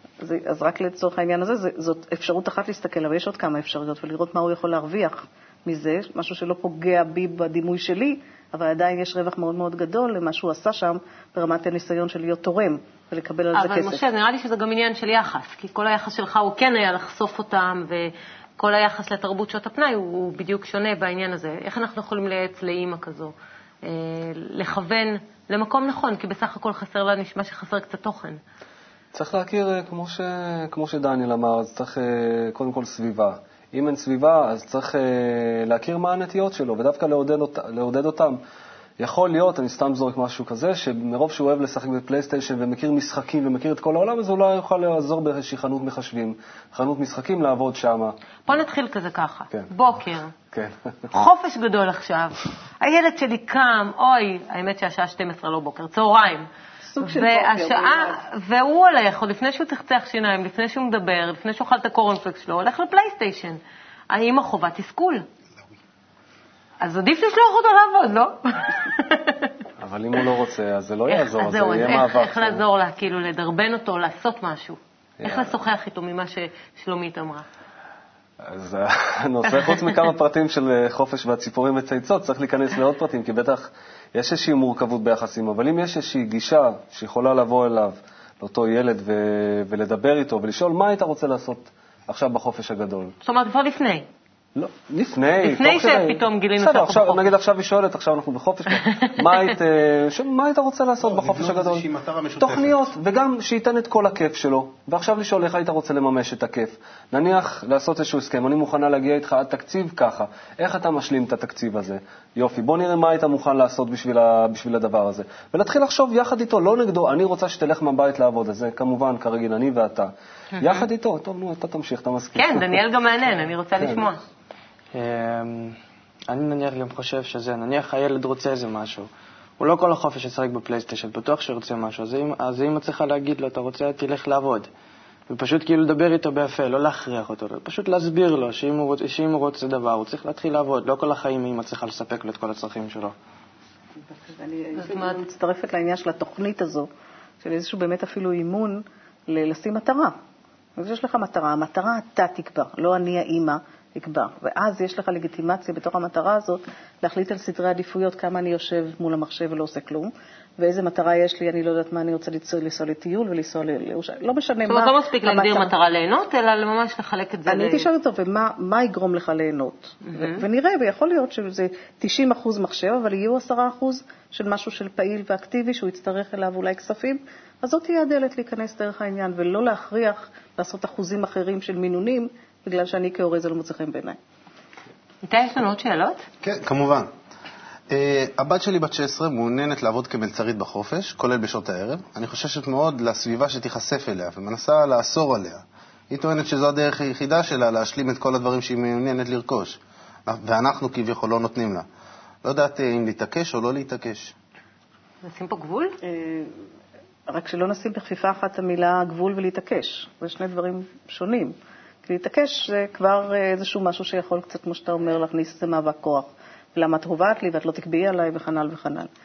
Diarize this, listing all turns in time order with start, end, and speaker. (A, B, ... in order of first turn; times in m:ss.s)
0:00.2-0:14.0 A
0:13.6-0:28.4 B
0:29.1-0:38.4 C
0:39.0-0:48.2 C
0:48.5-0:50.3 B
0:50.5-0:51.1 C
0:51.1-0:56.5 B
0:56.9-0:58.2 A
0:57.0-1:03.6 B
1:04.1-1:05.2 B
1:06.8-1:09.5 B
1:09.8-1:12.6 C
1:11.1-1:17.4 B
1:15.2-1:15.5 C
1:18.4-1:33.1 C
1:33.2-1:34.1 B
1:34.6-1:41.8 C
1:35.4-1:37.2 B
1:38.8-1:39.2 B
1:41.0-1:42.8 D
1:42.4-2:02.8 C
2:00.6-2:00.8 B
2:02.4-2:04.2 B
2:03.8-2:04.0 C
2:04.9-2:05.8 E
2:06.3-2:14.7 E
2:15.3-2:23.1 E
2:24.1-2:26.9 A
2:27.4-2:30.1 A
2:30.8-2:45.7 A
2:44.7-2:47.9 B
2:47.5-3:04.2 A
2:50.1-2:50.4 B
3:05.2-3:06.2 B
3:06.4-3:07.1 D
3:07.9-3:21.8 D
3:22.4-3:24.3 D
3:25.2-3:26.0 B
3:26.0-3:26.5 A
3:27.3-3:39.1 A